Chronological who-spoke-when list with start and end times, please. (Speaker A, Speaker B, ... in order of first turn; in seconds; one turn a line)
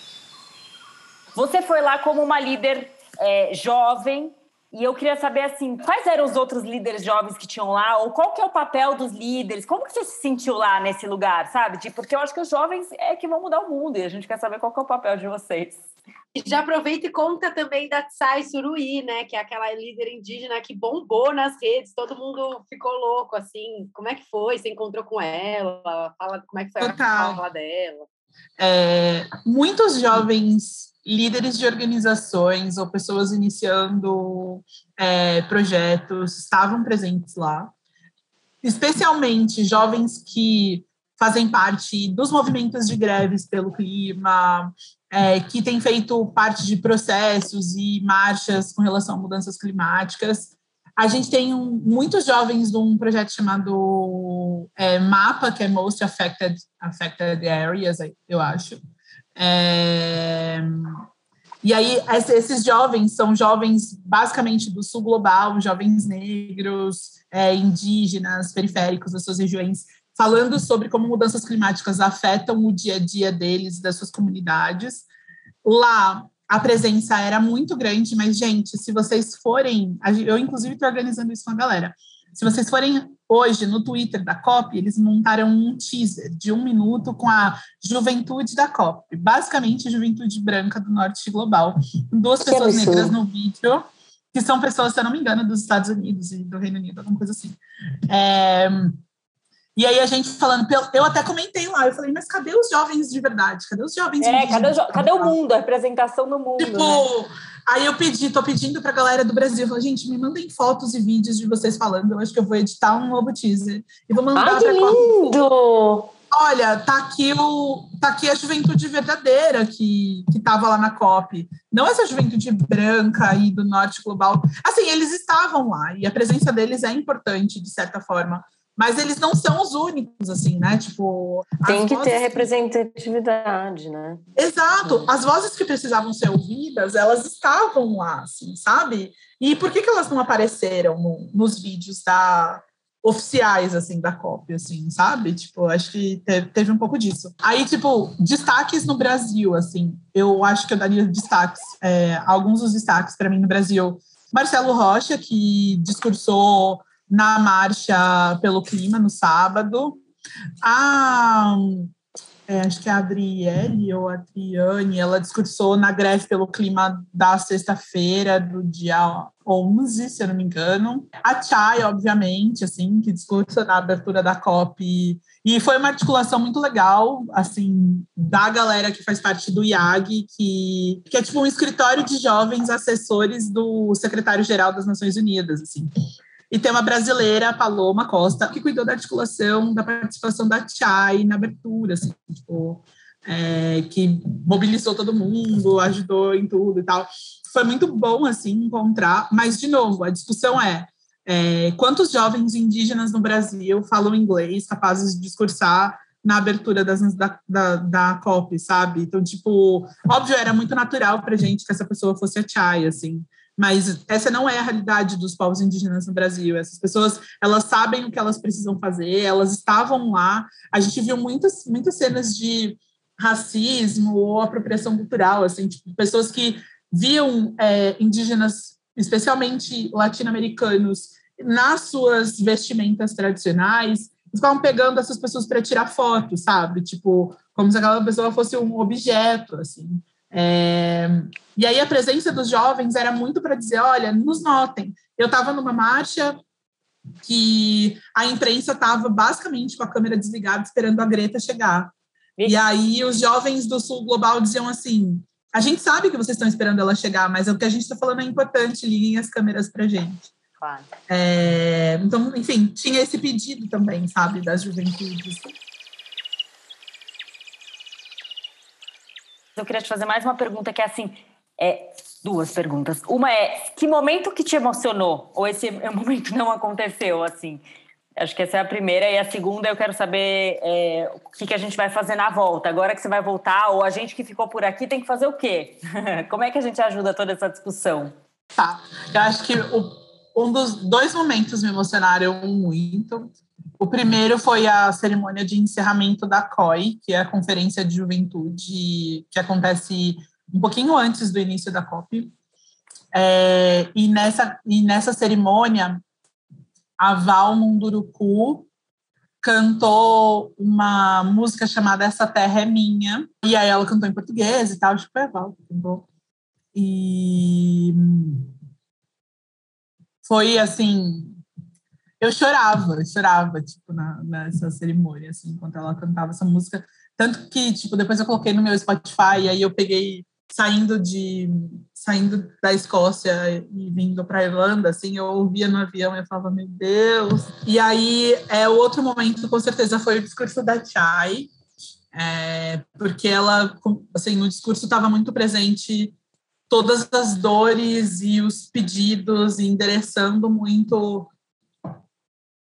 Speaker A: 1.3-15.8
Speaker B: 16.3-28.1
Speaker C: 26.8-27.4
Speaker C: 28.6-37.7
Speaker C: 38.6-58.8
Speaker C: 59.4-61.0
Speaker C: 61.6-75.0
Speaker C: 75.6-99.0
Speaker D: 92.4-93.1
Speaker C: 99.8-105.3
Speaker A: 104.2-107.1
Speaker C: 106.6-115.4
Speaker D: 114.3-116.1
Speaker C: 116.3-132.5
Speaker D: 131.7-134.2
Speaker C: 134.3-160.0
Speaker C: 160.6-161.9
Speaker C: 162.5-185.9
Speaker C: 186.5-246.4
Speaker C: 247.2-251.9
Speaker C: 252.4-260.3
Speaker A: 260.6-260.9
Speaker C: 261.1-265.5
Speaker A: 269.6-277.6
Speaker A: 278.2-288.1
Speaker C: 288.5-302.3
Speaker C: 303.1-306.0
Speaker C: 307.0-308.7
Speaker C: 309.4-316.1
Speaker C: 316.7-318.5
Speaker C: 320.2-321.4
Speaker C: 322.2-341.5
Speaker C: 342.1-346.1
Speaker C: 346.7-351.3